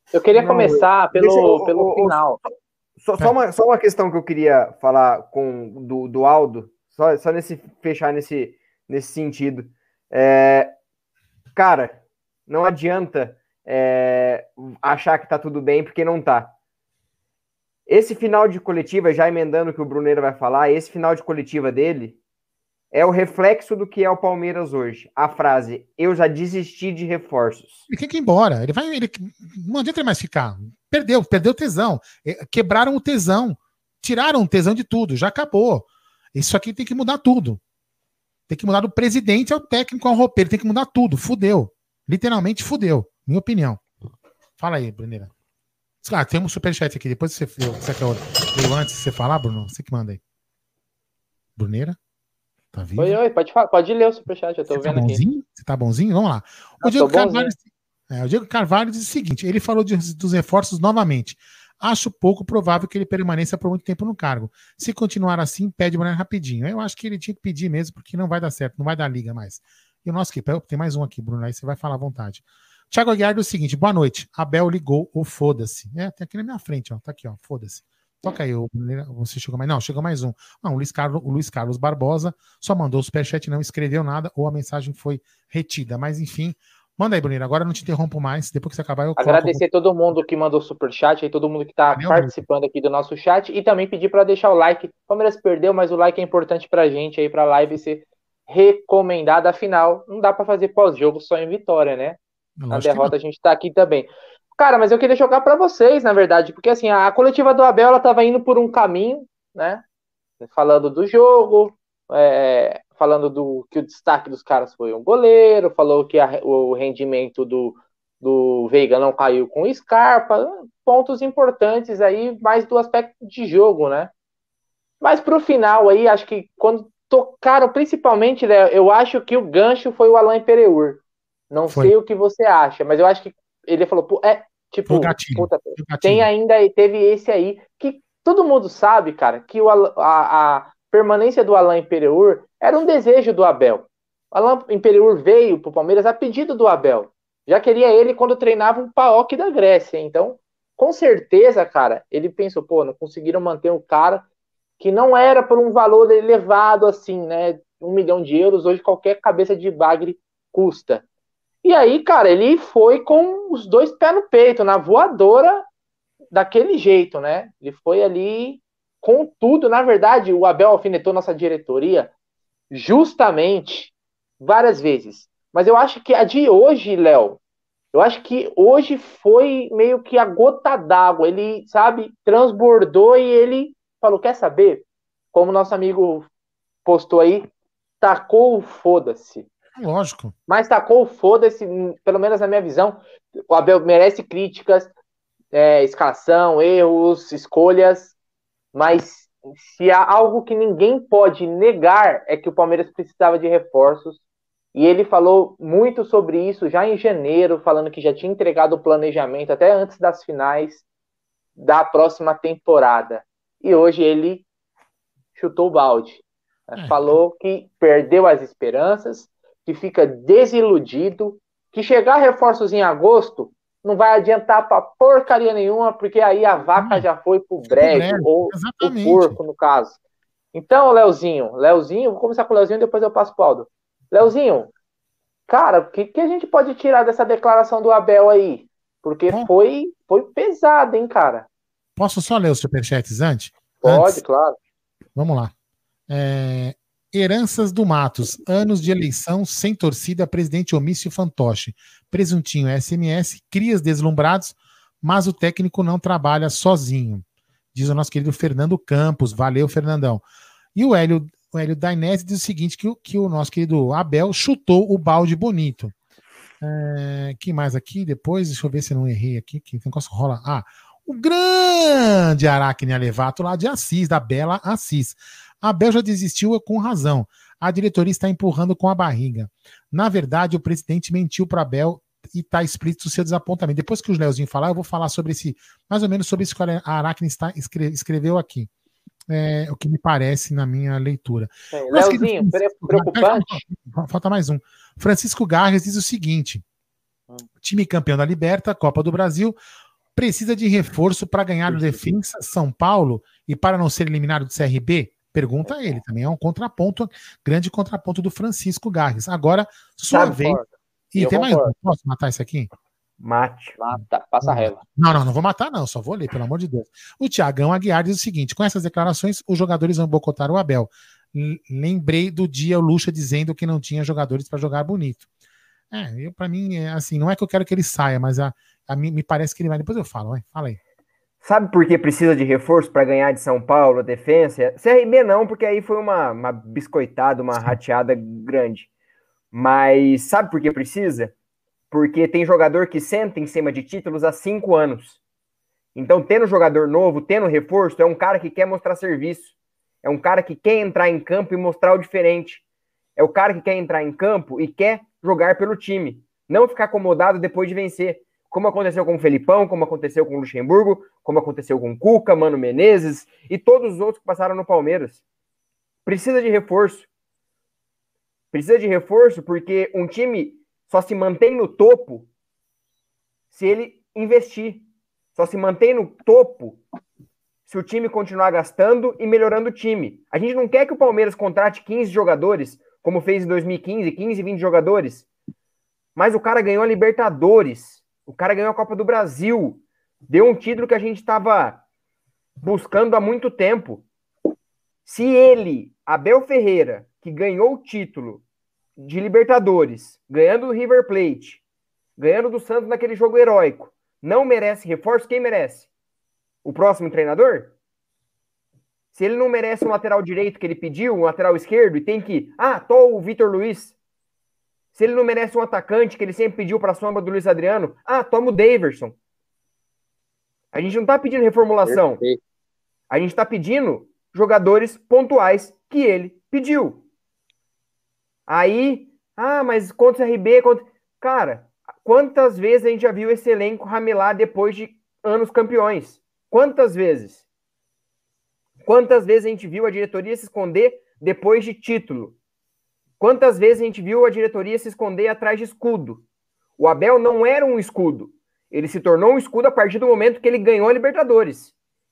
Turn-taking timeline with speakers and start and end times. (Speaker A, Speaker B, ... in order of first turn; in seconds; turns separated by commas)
Speaker A: 0.1-2.4, Speaker B: 0.3-10.8, Speaker B: 11.6-16.5, Speaker B: 17.9-22.2, Speaker B: 22.9-27.9, Speaker C: 27.9-37.6, Speaker C: 38.5-43.8, Speaker C: 44.6-45.3, Speaker C: 46.0-50.2, Speaker C: 51.6-52.0, Speaker C: 52.7-53.2, Speaker A: 53.0-55.2, Speaker C: 54.7-89.6, Speaker A: 56.8-57.5, Speaker A: 89.2-102.2, Speaker C: 92.0-92.4, Speaker C: 102.6-103.1, Speaker A: 102.7-109.8, Speaker A: 110.4-124.1, Speaker A: 125.0-154.2, Speaker C: 134.9-136.3, Speaker A: 154.8-161.0, Speaker A: 161.6-165.7, Speaker A: 166.3-172.1, Speaker A: 172.7-177.4, Speaker A: 177.9-186.3, Speaker A: 186.8-187.5, Speaker A: 188.0-189.5, Speaker C: 189.8-190.3, Speaker A: 190.5-194.9, Speaker A: 195.5-198.2, Speaker A: 198.7-204.2, Speaker A: 204.8-210.8, Speaker A: 211.6-214.4, Speaker A: 215.4-230.0, Speaker C: 216.8-217.0, Speaker C: 226.8-227.1, Speaker C: 227.7-229.4, Speaker A: 230.5-234.7, Speaker A: 235.5-241.5, Speaker C: 242.0-244.2, Speaker A: 243.8-244.6, Speaker C: 245.2-245.5, Speaker C: 246.1-260.2, Speaker C: 260.8-265.9, Speaker C: 266.6-288.7, Speaker C: 289.3-296.6, Speaker A: 291.7-293.6, Speaker C: 297.6-299.6, Speaker C: 300.1-310.6, Speaker A: 301.7-302.0, Speaker A: 305.6-306.0, Speaker A: 310.1-311.7, Speaker C: 311.1-312.7, Speaker B: 313.2-313.8, Speaker A: 313.8-314.8, Speaker C: 314.4-325.3, Speaker C: 325.9-330.8, Speaker B: 331.4-338.9, Speaker B: 339.5-341.3, Speaker B: 341.9-345.2, Speaker B: 345.9-352.6, Speaker B: 353.2-365.2, Speaker B: 366.1-367.1, Speaker B: 368.5-372.3, Speaker B: 373.5-376.8, Speaker B: 377.7-385.3, Speaker B: 386.2-391.8, Speaker B: 392.6-394.1, Speaker B: 395.1-398.4, Speaker B: 399.0-401.6, Speaker B: 402.2-405.9, Speaker B: 406.6-407.7, Speaker B: 409.1-413.9, Speaker B: 414.9-419.1, Speaker B: 420.7-422.2, Speaker A: 421.9-422.4, Speaker B: 423.1-427.0, Speaker B: 428.5-437.4, Speaker B: 438.8-442.4, Speaker B: 443.2-446.2, Speaker B: 446.8-451.7